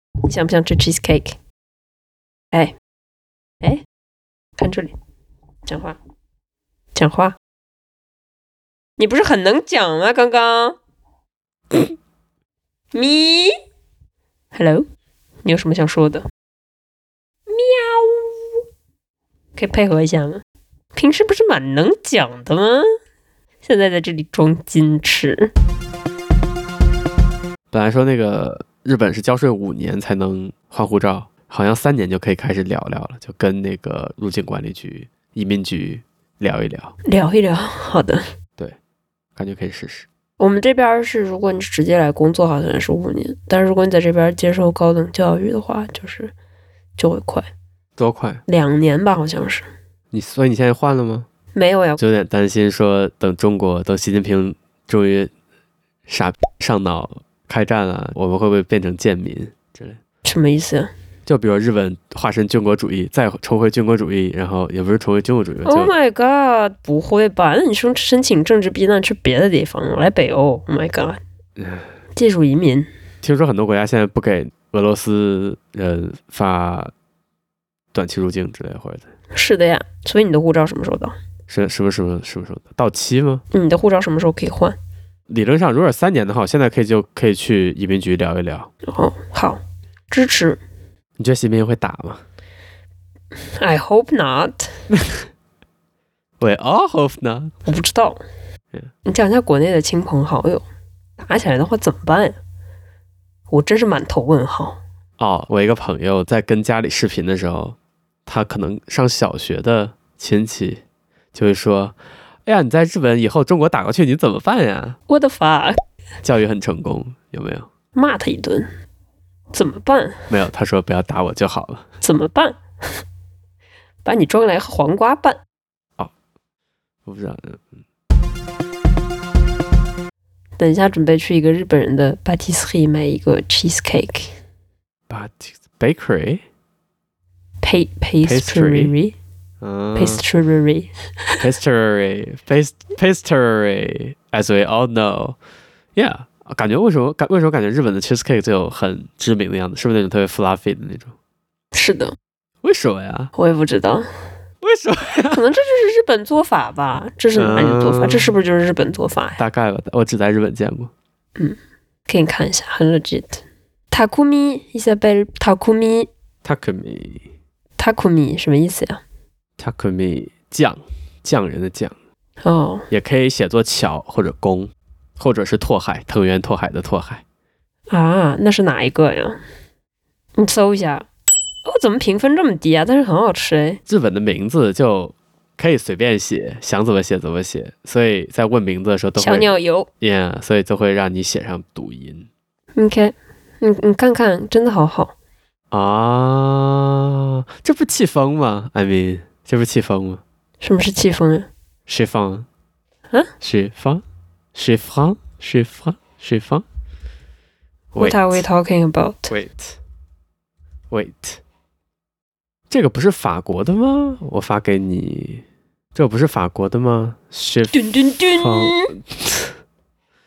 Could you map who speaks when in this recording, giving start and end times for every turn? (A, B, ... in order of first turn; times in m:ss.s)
0:00.2-0:01.4 A
0:04.6-0:04.9 A
0:05.7-0:06.0 A
0:07.0-0:07.4 A
0:09.0-0:10.8 A
0:12.9-0:13.5 A
0:14.5-0:14.9 A
0:15.4-0:16.2 A
0:17.5-0:18.6 A
0:19.6-0:20.4 A
0:21.0-0:22.9 A
0:23.6-0:25.5 A
0:27.7-0:37.0 B
0:37.0-0:38.2 A
0:39.4-0:40.1 B
0:40.4-0:46.3 A
0:47.0-0:47.5 A
0:48.0-0:48.4 B
0:48.5-0:49.7 A
0:50.1-0:51.3 B
0:51.5-0:52.0 A
0:52.0-0:55.3 B
0:56.1-1:00.0 B
1:00.2-1:00.9 A
1:01.3-1:05.9 B
1:05.6-1:11.2 A
1:11.6-1:11.9 B
1:12.2-1:12.9 A
1:13.2-1:16.9 B
1:17.9-1:19.1 B
1:19.3-1:21.2 A
1:21.5-1:23.4 B
1:23.5-1:24.8 A
1:25.3-1:28.7 B
1:28.9-1:30.6 A
1:31.2-1:32.2 B
1:33.6-1:34.7 A
1:34.9-1:35.2 B
1:36.4-1:37.6 B
1:37.7-1:38.2 A
1:39.1-1:40.6 A
1:41.2-1:42.4 A
1:43.5-1:44.8 A
1:45.2-1:47.8 B
1:48.3-1:50.8 B
1:51.3-1:55.0 B
1:55.1-1:55.8 A
1:56.2-1:57.7 B
1:57.9-1:58.7 A
1:59.5-2:00.2 A
2:00.3-2:01.8 B
2:02.0-2:02.6 A
2:04.0-2:05.4 A
2:07.1-2:07.8 B
2:10.6-2:14.3 A
2:15.1-2:16.4 B
2:17.6-2:19.2 A
2:18.2-2:18.9 B
2:19.6-2:20.2 B
2:20.0-2:21.4 A
2:21.4-2:25.4 B
2:26.0-2:31.1 B
2:31.7-2:32.2 A
2:32.6-2:33.3 B
2:33.4-2:34.1 A
2:34.6-2:35.4 B
2:35.3-2:39.4 A
2:37.3-2:38.4 B
2:39.4-2:40.9 B
2:41.4-2:46.1 A
2:46.4-2:47.3 B
2:47.8-2:49.0 A
2:49.6-2:52.0 B
2:52.4-2:52.9 A
2:52.9-2:57.2 B
2:57.9-2:59.4 A
3:00.4-3:01.1 A
3:01.7-3:03.8 A
3:03.9-3:12.3 B
3:09.2-3:09.9 A
3:12.8-3:15.1 A
3:15.7-3:20.2 B
3:20.6-3:21.5 A
3:21.9-3:22.5 B
3:23.4-3:24.0 B
3:24.6-3:26.6 B
3:27.9-3:28.4 B
3:28.0-3:29.3 A
3:29.3-3:29.8 B
3:30.9-3:31.4 B
3:32.7-3:35.4 B
3:36.0-3:39.6 B
3:37.7-3:39.0 A